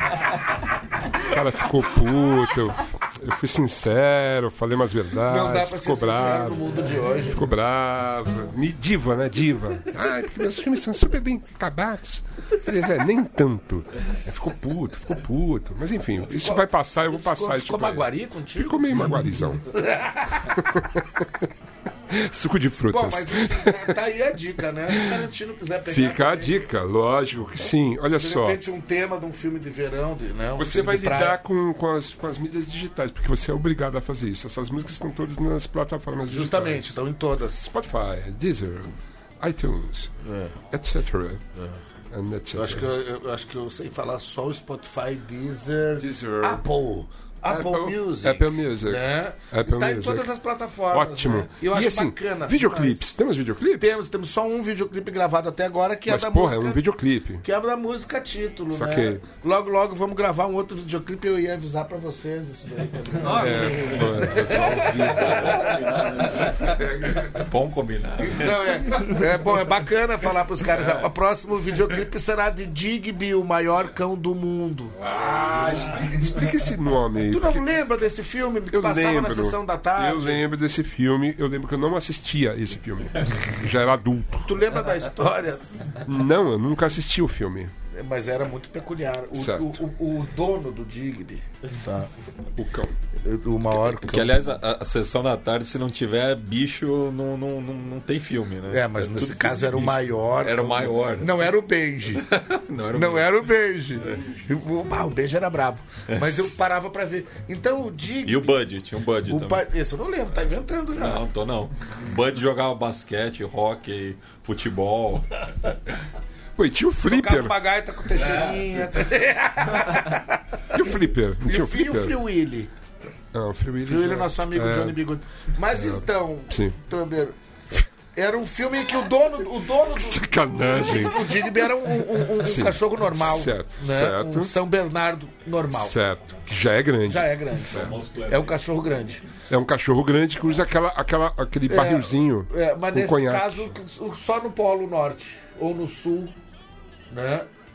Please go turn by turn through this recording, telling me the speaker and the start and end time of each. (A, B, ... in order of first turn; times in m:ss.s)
0:01.2-0:19.6 A
0:05.2-0:07.4 B
0:16.3-0:20.7 B
0:20.5-0:21.0 A
0:22.1-0:23.9 A
0:22.9-0:26.6 B
0:24.9-0:25.2 A
0:25.9-0:28.6 A
0:28.1-0:31.4 B
0:30.6-0:37.0 A
0:36.3-0:37.7 B
0:37.6-0:40.1 A
0:40.2-0:40.6 B
0:40.7-0:41.4 A
0:42.1-0:42.9 A
0:42.5-0:53.1 B
0:46.0-0:46.6 A
0:47.5-0:50.3 A
0:50.9-0:54.0 A
0:53.8-0:56.8 B
0:56.1-0:57.4 A
0:57.4-1:06.7 B
0:58.7-0:59.2 A
1:03.2-1:07.4 A
1:05.1-1:09.0 C
1:08.2-1:15.0 B
1:10.7-1:11.1 C
1:15.0-1:17.6 A
1:17.3-1:20.4 B
1:18.7-1:24.5 A
1:24.4-1:26.0 B
1:26.0-1:27.7 A
1:27.9-1:32.1 B
1:29.3-1:29.8 A
1:32.6-1:32.9 A
1:33.2-1:34.4 B
1:33.7-1:41.5 C
1:38.7-1:42.2 B
1:42.1-1:43.5 C
1:42.9-1:48.6 B
1:46.1-1:46.4 C
1:48.2-1:49.6 C
1:49.2-1:51.2 B
1:50.9-1:55.7 C
1:56.6-1:57.6 A
1:57.0-2:00.4 B
2:00.7-2:02.2 A
2:01.4-2:02.7 B
2:03.3-2:05.0 A
2:03.8-2:07.3 B
2:05.7-2:06.0 A
2:08.1-2:16.0 B
2:09.9-2:11.6 A
2:12.3-2:14.5 A
2:15.7-2:17.9 A
2:17.0-2:19.2 B
2:17.7-2:18.6 C
2:19.5-2:23.7 A
2:21.7-2:26.3 B
2:27.1-2:27.5 B